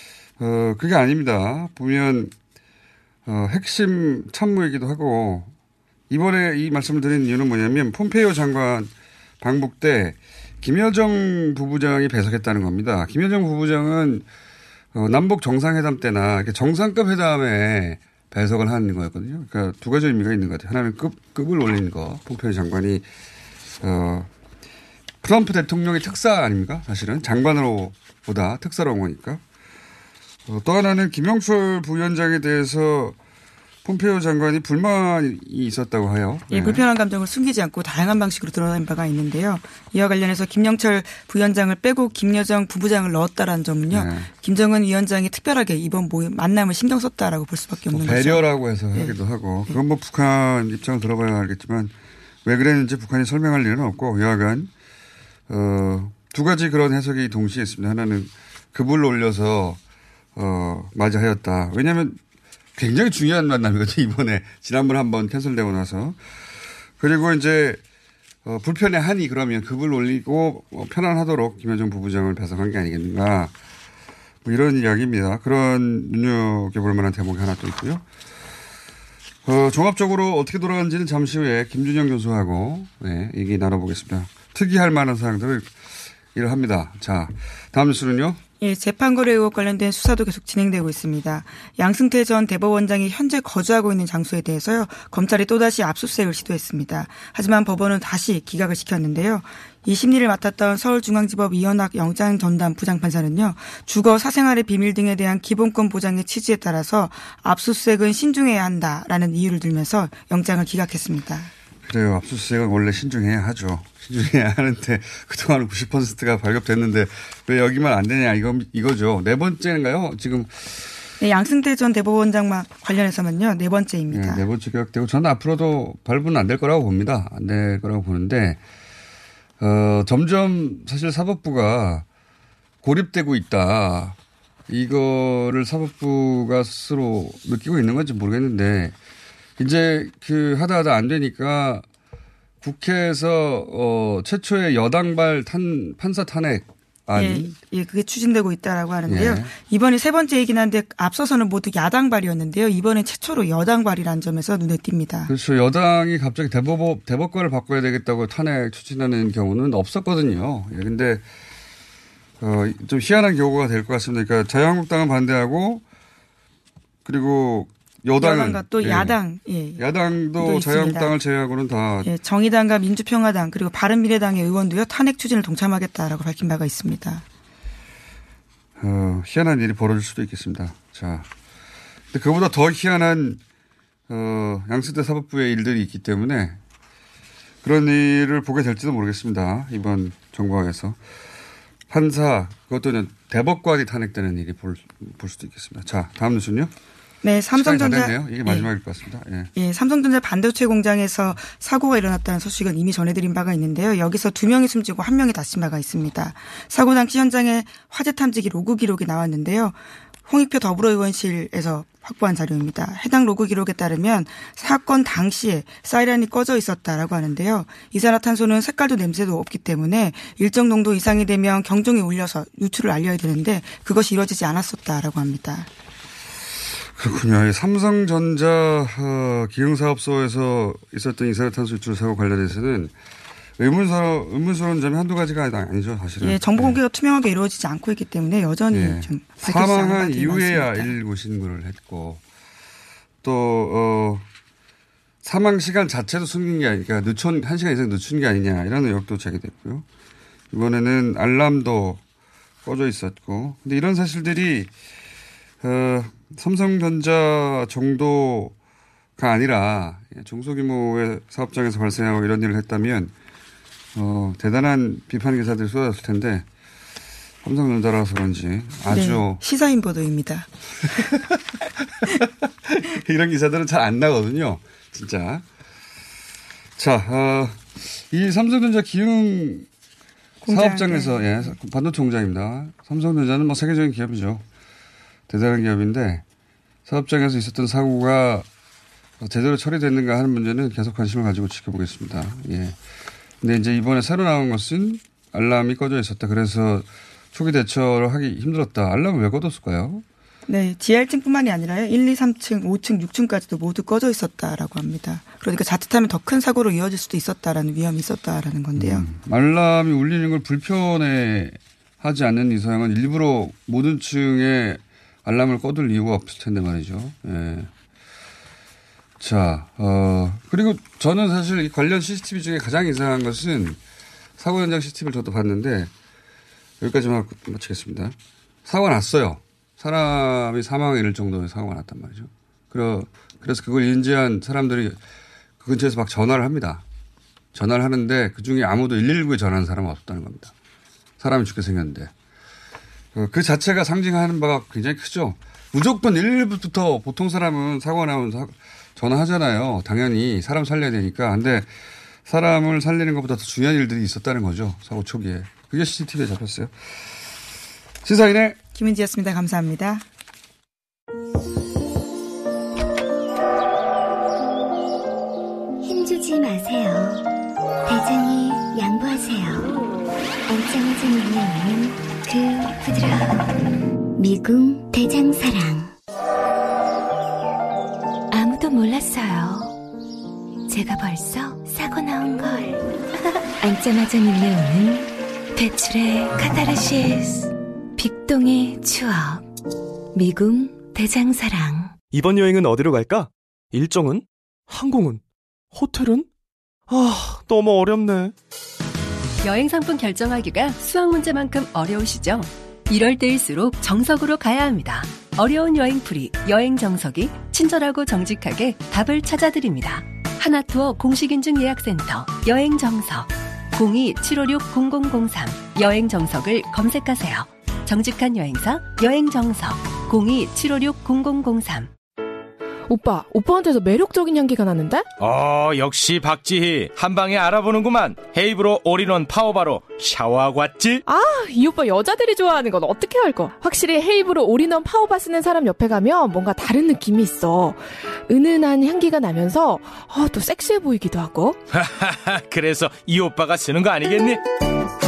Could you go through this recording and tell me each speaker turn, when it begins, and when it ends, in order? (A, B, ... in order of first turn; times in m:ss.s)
0:00.4-0:02.3 A
0:03.2-0:05.5 A
0:06.1-0:14.2 A
0:14.9-0:23.0 A
0:23.8-0:24.3 A
0:25.2-0:29.4 A
0:30.5-0:33.2 A
0:33.8-0:36.8 A
0:36.5-0:49.2 B
0:43.9-0:44.3 A
0:47.9-0:51.9 A
0:52.4-0:54.7 A
0:55.5-0:59.8 A
1:00.4-1:02.2 A
1:02.8-1:06.2 A
1:07.0-1:07.8 A
1:08.4-1:13.5 A
1:14.4-1:18.0 A
1:19.4-1:25.7 A
1:26.3-1:28.4 A
1:28.6-1:51.5 B
1:51.8-2:00.8 A
2:01.2-2:04.4 B
2:04.1-2:08.6 A
2:09.6-2:12.0 A
2:12.8-2:14.2 A
2:14.7-2:18.9 A
2:19.6-2:21.8 A
2:22.6-2:27.5 A
2:27.1-2:35.3 B
2:29.1-2:29.5 A
2:35.3-2:41.2 A
2:42.4-2:45.8 A
2:47.0-2:49.2 A
2:48.2-2:51.2 B
2:49.8-2:52.1 A
2:52.0-2:57.2 B
2:58.8-3:01.3 A
3:02.1-3:03.4 A
3:04.1-3:06.6 A
3:07.6-3:11.0 A
3:11.9-3:16.7 A
3:17.2-3:18.7 B
3:17.5-3:19.5 A
3:19.5-3:45.7 B
3:47.0-3:52.9 A
3:53.6-3:56.8 A
3:56.2-4:01.0 B
3:58.7-4:02.2 A
4:03.2-4:04.2 A
4:05.2-4:09.8 A
4:10.5-4:12.0 A
4:12.6-4:14.7 A
4:15.6-4:18.5 A
4:19.2-4:23.1 A
4:23.9-4:26.4 A
4:27.4-4:29.4 A
4:28.9-4:30.5 B
4:31.0-4:31.4 A
4:32.0-4:35.4 A
4:36.8-4:39.7 A
4:40.4-4:41.5 B
4:40.5-4:44.4 A
4:45.3-4:46.2 A
4:46.8-4:48.4 A
4:49.2-4:52.8 A
4:53.4-5:00.0 A
5:00.5-5:09.0 B
5:08.8-5:17.7 A
5:19.2-5:23.8 A
5:24.4-5:25.9 A
5:26.8-5:35.0 A
5:35.6-5:36.8 A
5:37.5-5:40.5 A
5:41.2-5:42.1 A
5:43.1-5:51.7 A
5:52.2-5:56.7 A
5:58.0-5:58.6 A
5:58.7-6:00.0 B
6:05.8-6:07.2 C
6:07.8-6:09.8 C
6:10.5-6:12.2 C
6:12.2-6:13.5 D
6:14.2-6:15.9 C
6:18.3-6:19.7 D
6:20.7-6:22.8 D
6:23.6-6:29.4 D
6:30.1-6:32.0 D
6:32.1-6:35.2 E
6:35.7-6:36.3 E
6:36.9-6:38.3 E
6:39.4-7:01.9 F
7:02.9-7:05.1 G
7:05.2-7:11.0 H
7:11.0-7:21.6 G
7:21.7-7:24.4 H